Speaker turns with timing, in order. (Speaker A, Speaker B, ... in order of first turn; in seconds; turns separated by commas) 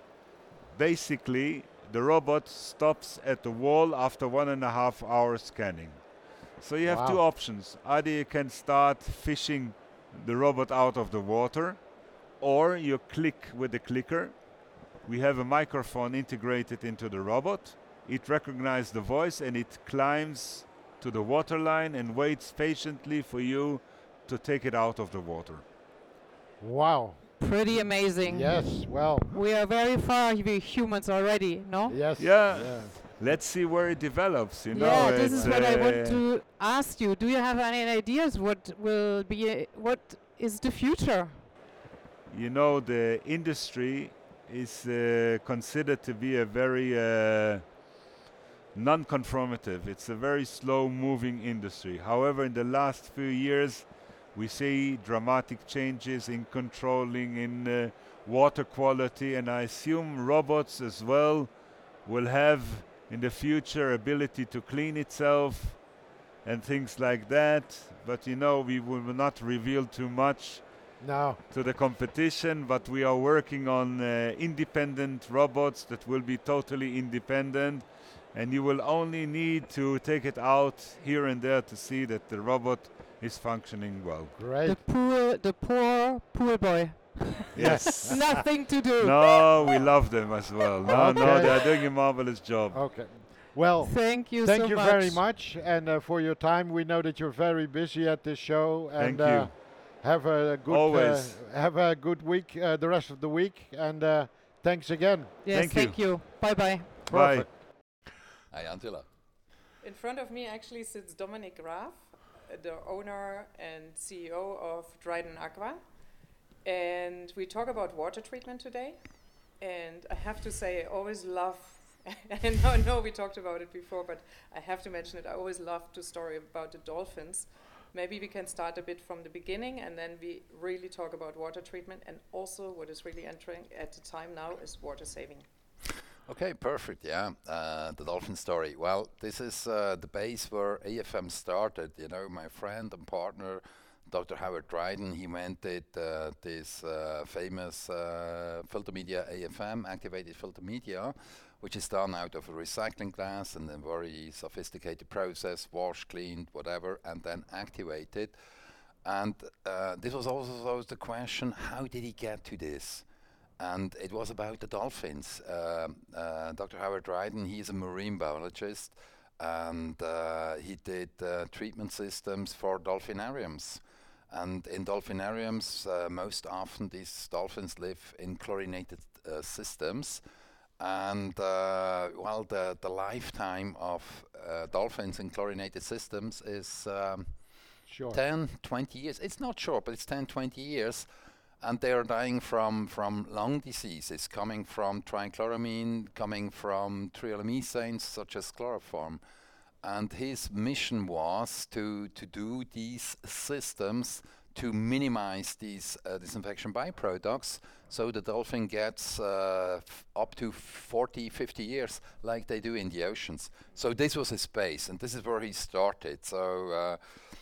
Speaker A: 0.7-25.6, Speaker B: 6.8-7.2, Speaker B: 26.6-29.3, Speaker C: 27.4-32.1, Speaker B: 31.9-33.0, Speaker A: 32.2-36.2, Speaker C: 34.7-41.5, Speaker B: 35.3-35.5, Speaker A: 42.3-47.8, Speaker A: 48.7-65.9, Speaker A: 66.4-70.9, Speaker B: 71.0-71.4, Speaker A: 71.5-84.3, Speaker B: 84.3-84.8, Speaker C: 84.6-89.9, Speaker A: 87.5-88.4, Speaker B: 87.6-88.3, Speaker A: 89.0-93.2, Speaker C: 90.6-91.9, Speaker B: 90.9-91.6, Speaker B: 92.7-105.4, Speaker C: 93.8-95.2, Speaker A: 99.0-99.6, Speaker A: 100.7-101.4, Speaker C: 105.4-107.0, Speaker A: 105.5-106.2, Speaker A: 107.0-107.5, Speaker B: 107.1-107.5, Speaker D: 108.5-109.1, Speaker E: 109.8-115.8, Speaker E: 116.6-119.0, Speaker E: 119.6-135.4, Speaker D: 136.3-158.4, Speaker D: 159.0-163.1, Speaker D: 163.6-180.2, Speaker D: 180.8-187.3, Speaker B: 187.9-188.2, Speaker D: 188.1-191.1, Speaker D: 191.6-199.2, Speaker D: 199.8-217.0